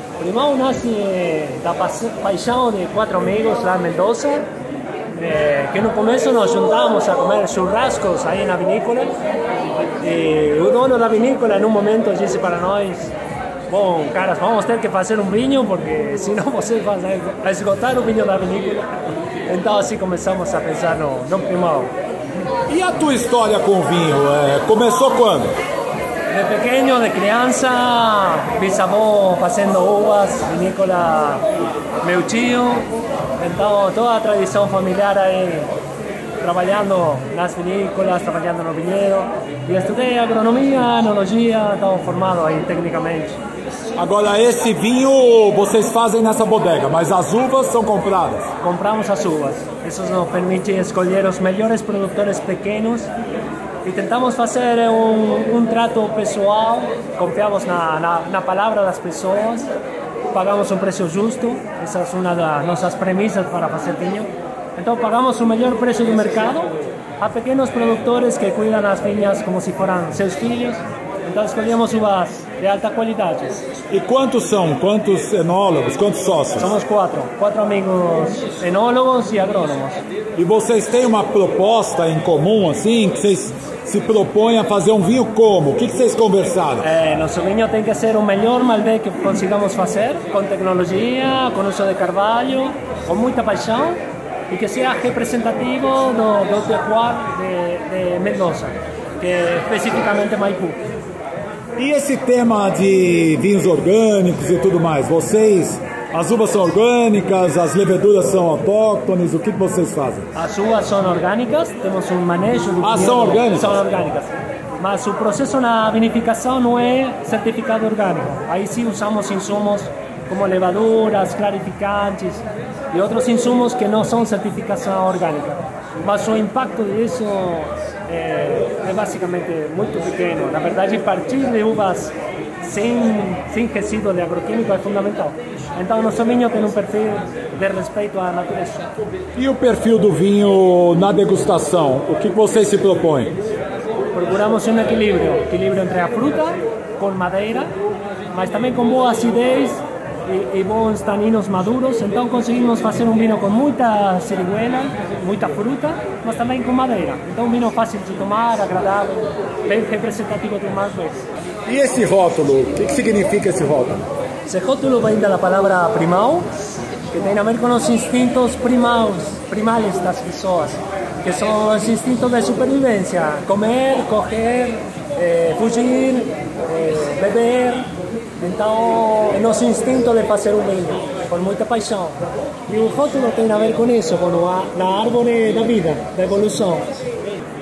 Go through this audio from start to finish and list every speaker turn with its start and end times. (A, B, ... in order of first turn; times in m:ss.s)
0:00.2-0:04.4 A
0:05.1-0:09.1 A
0:10.0-0:13.1 A
0:13.7-0:18.9 A
0:19.5-0:21.9 A
0:22.7-0:25.5 B
0:26.3-0:31.4 A
0:32.0-0:32.9 A
0:33.4-0:35.7 A
0:36.4-0:43.4 A
0:44.0-0:48.5 B
0:48.6-0:53.1 A
0:53.8-0:59.7 A
1:00.3-1:13.6 A
1:13.9-1:16.7 B
1:16.6-1:20.0 A
1:20.4-1:26.9 B
1:26.8-1:40.8 A
1:41.8-1:50.3 B
1:50.3-2:18.9 A
1:52.8-1:53.8 B
2:19.3-2:23.4 B
2:24.1-2:27.7 A
2:28.3-2:41.2 A
2:41.6-2:44.0 B
2:44.4-2:46.5 A
2:47.1-2:57.9 A
2:58.4-3:06.9 A